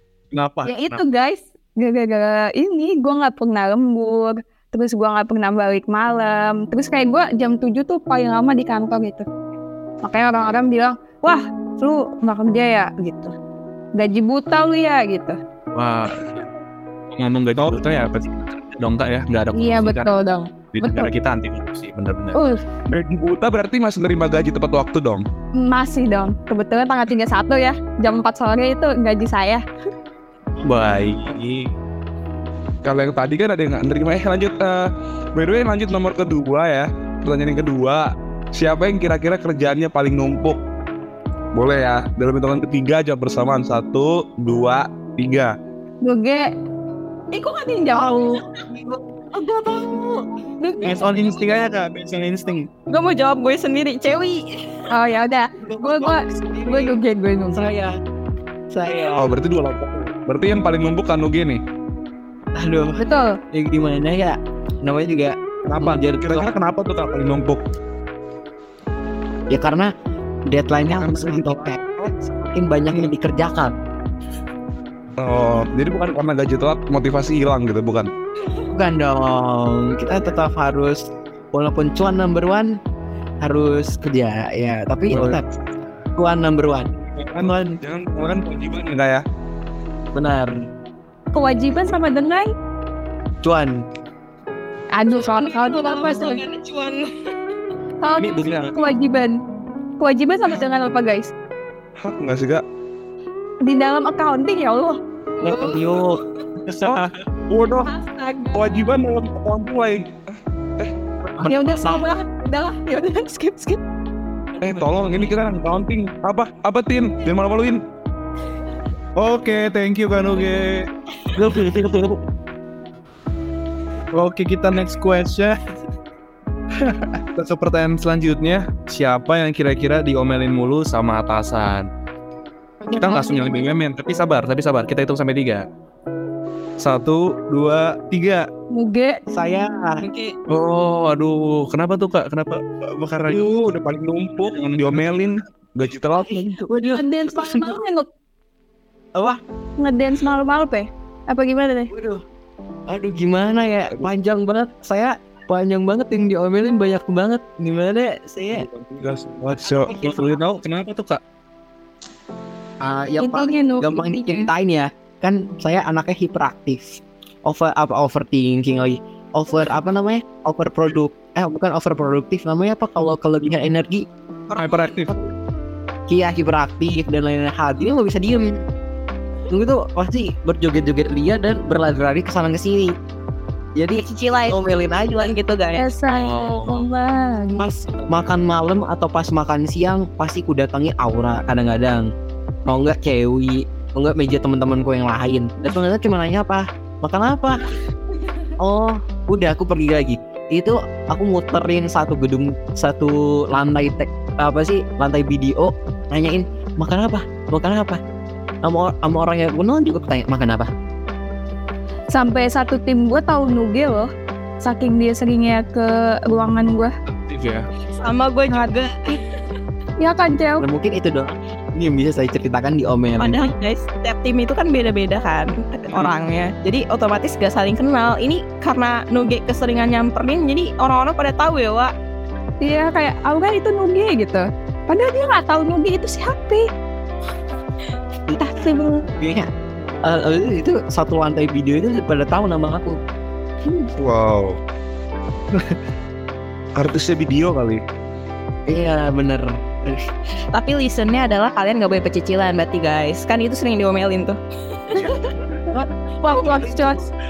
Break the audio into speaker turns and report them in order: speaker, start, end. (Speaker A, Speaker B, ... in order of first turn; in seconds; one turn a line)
Speaker A: 0.3-1.0
Speaker B: 0.7-9.3
Speaker B: 10.0-13.3
Speaker B: 13.9-15.4
Speaker A: 15.7-16.4
Speaker A: 17.1-20.1
Speaker B: 19.5-21.1
Speaker A: 20.7-22.4
Speaker B: 22.4-22.6
Speaker C: 22.9-25.2
Speaker B: 25.5-29.6
Speaker A: 30.6-31.7
Speaker C: 32.8-40.6
Speaker C: 41.5-45.5
Speaker B: 46.0-46.5
Speaker B: 47.3-48.4
Speaker D: 48.0-49.3
Speaker E: 49.4-50.2
Speaker B: 50.6-51.0
Speaker A: 50.8-52.7
Speaker E: 52.9-54.9
Speaker B: 54.9-57.6
Speaker D: 55.6-57.0
Speaker D: 57.5-58.0
Speaker D: 58.7-59.3
Speaker C: 59.2-61.6
Speaker D: 62.6-66.6
Speaker B: 63.0-63.4
Speaker C: 65.7-67.6
Speaker D: 69.5-69.9
Speaker D: 70.5-73.8
Speaker C: 70.9-71.7
Speaker C: 75.2-78.1
Speaker D: 78.7-82.7
Speaker D: 83.4-85.4
Speaker A: 85.1-85.4
Speaker D: 86.2-87.8
Speaker C: 87.2-89.2
Speaker D: 90.1-90.6
Speaker B: 91.3-92.5
Speaker D: 93.4-93.8
Speaker B: 94.9-96.4
Speaker E: 95.2-97.3
Speaker B: 98.0-99.4
Speaker A: 98.2-98.8
Speaker B: 100.0-101.3
Speaker C: 102.0-102.6
Speaker B: 103.6-105.0
Speaker D: 105.4-106.2
Speaker A: 106.7-107.0
Speaker C: 107.5-107.9
Speaker B: 107.9-108.9
Speaker C: 108.5-110.2
Speaker B: 111.4-113.8
Speaker D: 111.5-112.0
Speaker C: 114.6-117.8
Speaker A: 119.2-120.9
Speaker D: 121.3-122.2
Speaker A: 124.1-125.6
Speaker A: 127.2-131.9
Speaker B: 132.9-133.6
Speaker A: 133.0-135.7
Speaker A: 136.8-138.5
Speaker B: 138.7-139.2
Speaker D: 139.3-140.0
Speaker E: 140.0-140.3
Speaker A: 140.5-143.5
Speaker C: 143.3-146.5
Speaker D: 146.4-147.8
Speaker B: 146.9-148.1
Speaker B: 149.8-151.9
Speaker D: 151.9-152.2
Speaker D: 152.9-158.7
Speaker C: 158.6-159.9
Speaker D: 159.8-160.4
Speaker A: 159.9-161.2
Speaker D: 162.8-174.1
Speaker B: 163.2-164.5
Speaker E: 174.5-175.1
Speaker A: 174.5-175.1
Speaker D: 176.1-178.5
Speaker D: 179.5-182.9
Speaker D: 183.8-185.4
Speaker E: 184.0-184.6
Speaker E: 185.2-185.9
Speaker B: 185.8-187.7
Speaker A: 186.1-186.8
Speaker D: 187.6-192.1
Speaker D: 192.7-197.6
Speaker D: 198.6-208.0
Speaker D: 208.6-210.7
Speaker B: 212.1-214.1
Speaker B: 214.6-216.9
Speaker A: 217.3-217.7
Speaker E: 217.8-219.2
Speaker B: 220.0-220.7
Speaker D: 220.6-223.5
Speaker E: 223.2-231.9
Speaker B: 232.6-236.7
Speaker B: 238.4-239.1
Speaker D: 239.2-239.5
Speaker D: 240.1-243.0
Speaker C: 244.0-244.6
Speaker C: 246.8-247.8
Speaker D: 248.7-250.1
Speaker E: 250.5-255.2
Speaker D: 255.7-257.0
Speaker B: 256.2-257.1